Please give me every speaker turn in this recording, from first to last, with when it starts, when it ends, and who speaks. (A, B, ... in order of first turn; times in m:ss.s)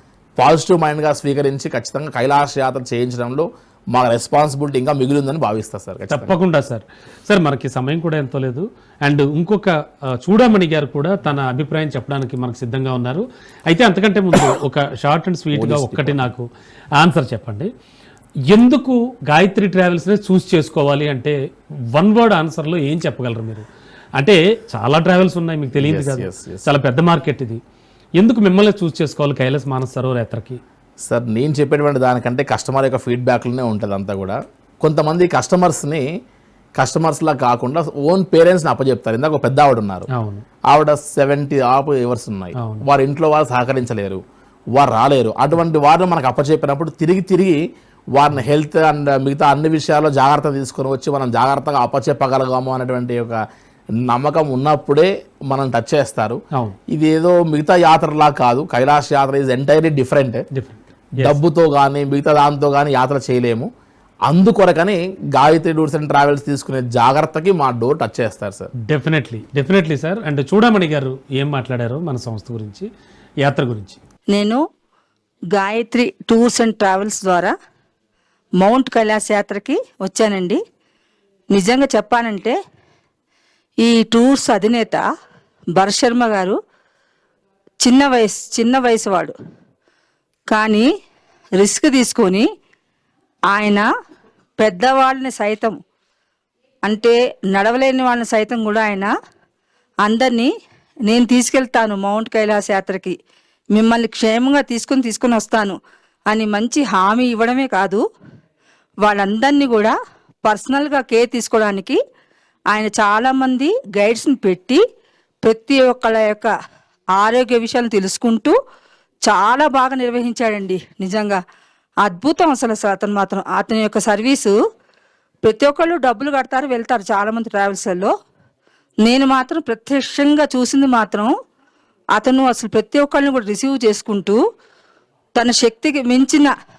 0:00.4-0:06.3 A
0:06.1-0:16.5 B
0:15.5-0:16.3 A
0:17.0-0:17.7 B
0:18.5-0:21.4 B
0:21.9-0:23.6 B
0:24.2-0:27.6 B
0:25.8-0:26.7 A
0:28.2-0:30.6 B
0:31.0-0:36.1 A
0:36.8-0:40.1 A
0:40.1-0:40.4 B
0:40.7-0:44.2 A
0:42.6-0:42.8 B
0:44.7-0:47.6 A
0:48.1-0:53.4 A
0:54.1-0:56.4 A
0:56.9-1:00.4 A
1:00.5-1:01.4 B
1:01.2-1:03.7 A
1:04.3-1:08.7 A
1:08.9-1:12.9 B
1:13.4-1:14.0 B
1:14.3-1:14.6 C
1:15.5-1:17.5 C
1:18.6-1:20.6 C
1:21.5-1:22.6 C
1:23.8-1:25.0 C
1:25.8-1:26.6 C
1:27.8-1:29.3 C
1:30.5-1:30.9 C
1:31.6-1:32.5 C
1:33.5-1:33.9 C
1:34.6-1:35.8 C
1:36.9-1:39.1 C
1:40.0-1:40.5 C
1:41.1-1:43.2 C
1:43.7-1:45.8 C
1:46.3-1:48.0 C
1:49.0-1:49.9 C
1:50.4-1:52.0 C
1:52.7-1:54.8 C
1:55.4-1:56.5 C
1:57.2-1:58.5 C
1:59.3-2:01.4 C
2:02.0-2:04.5 C
2:05.4-2:08.1 C
2:09.0-2:11.3 C
2:12.2-2:14.4 C
2:15.4-2:16.5 C